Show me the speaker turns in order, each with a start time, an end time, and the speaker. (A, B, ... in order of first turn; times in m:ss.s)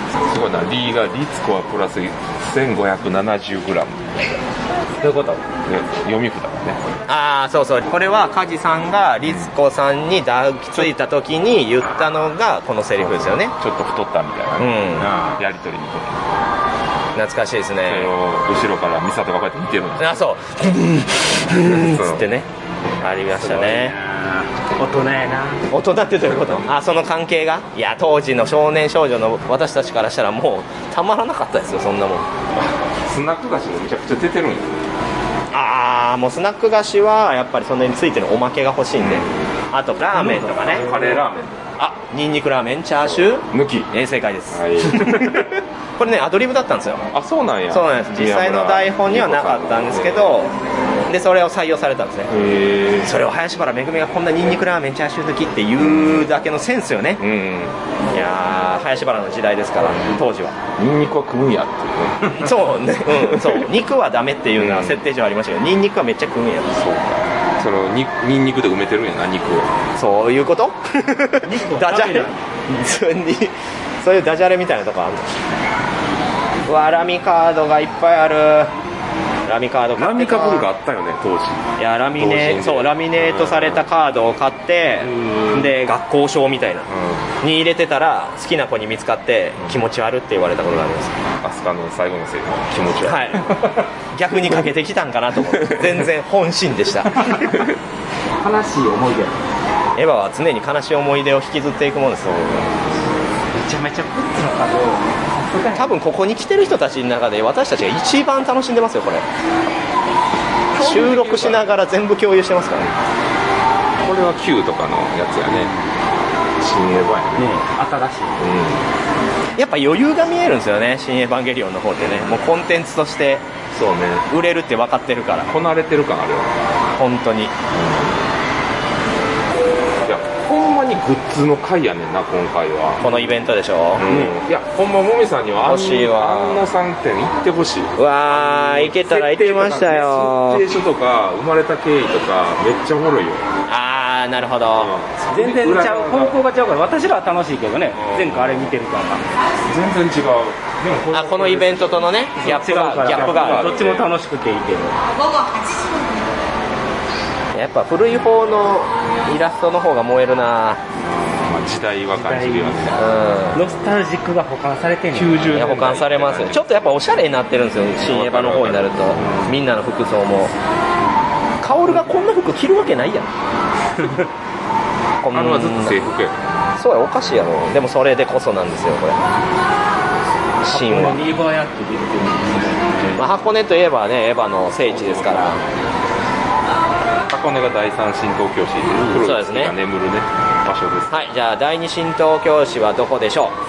0:00.2-0:04.1 A
0:05.0-0:05.4 B
0:05.6-0:06.8 A
0:07.1-0:13.5 C
0:09.2-0:09.5 A
0:13.0-0:16.3 A
0:14.6-0:15.1 C
0:17.1-0:18.1 C
0:17.9-0:20.2 A
0:20.0-0:22.5 C
0:21.5-0:22.3 A
0:23.0-0:23.9 C
0:23.4-0:25.6 B
0:25.7-0:32.3 C
0:26.4-0:26.6 A
0:32.5-0:34.8 A
0:35.5-0:40.8 C
0:39.0-0:39.5 A
0:40.2-0:41.7 A
0:41.8-0:47.0 C
0:43.0-0:43.9 A
0:44.5-0:45.5 A
0:47.1-0:50.4 A
0:47.7-0:50.5 C
0:51.1-0:52.3 C
0:52.3-0:53.1 A
0:53.0-0:57.2 C
0:55.8-0:56.3 A
0:57.2-0:57.8 A
0:58.1-1:00.6 C
1:00.8-1:02.5 A
1:02.4-1:06.8 C
1:04.6-1:05.0 A
1:06.8-1:09.7 A
1:10.0-1:15.4 C
1:11.4-1:12.4 B
1:16.7-1:18.7 C
1:19.5-1:20.7 C
1:20.0-1:23.8 A
1:21.8-1:26.9 C
1:25.2-1:25.5 B
1:26.9-1:27.3 A
1:27.4-1:31.2 C
1:31.4-1:33.7 A
1:33.0-1:33.5 C
1:34.1-1:37.4 C
1:35.5-1:36.0 A
1:38.4-1:39.4 B
1:40.0-1:42.5 C
1:42.4-1:42.7 A
1:43.5-1:45.9 B
1:45.7-1:49.2 C
1:50.7-1:51.6 A
1:50.7-1:52.9 C
1:54.0-1:55.7 A
1:55.5-1:55.8 B
1:56.6-1:57.5 A
1:57.4-1:58.4 B
1:58.4-1:58.8 A
1:59.6-2:03.4 C
2:02.1-2:02.4 A
2:03.7-2:04.3 A
2:04.3-2:05.5 C
2:05.5-2:06.6 A
2:07.0-2:07.5 C
2:07.7-2:08.2 A
2:10.0-2:13.3 A
2:13.0-2:14.3 C
2:14.0-2:23.4 A
2:15.6-2:16.6 C
2:18.0-2:20.6 C
2:23.7-2:24.9 C
2:24.8-2:26.4 A
2:25.3-2:29.2 B
2:28.0-2:28.7 A
2:29.6-2:34.1 A
2:31.1-2:33.8 C
2:32.4-2:35.0 B
2:37.5-2:40.8 C
2:41.2-2:43.2 A
2:42.1-2:42.9 B
2:42.9-2:43.6 C
2:43.5-2:45.5 B
2:45.1-2:46.8 A
2:45.5-2:50.5 C
2:48.0-2:49.5 A
2:51.6-2:53.3 C
2:54.0-2:54.2 B
2:55.2-2:56.0 C
2:55.3-2:56.4 A
2:56.8-2:59.2 C
3:00.6-3:01.2 C
3:00.7-3:02.9 B
3:03.2-3:05.6 C
3:04.8-3:05.7 A
3:07.3-3:11.2 A
3:09.2-3:09.7 C
3:11.1-3:13.6 C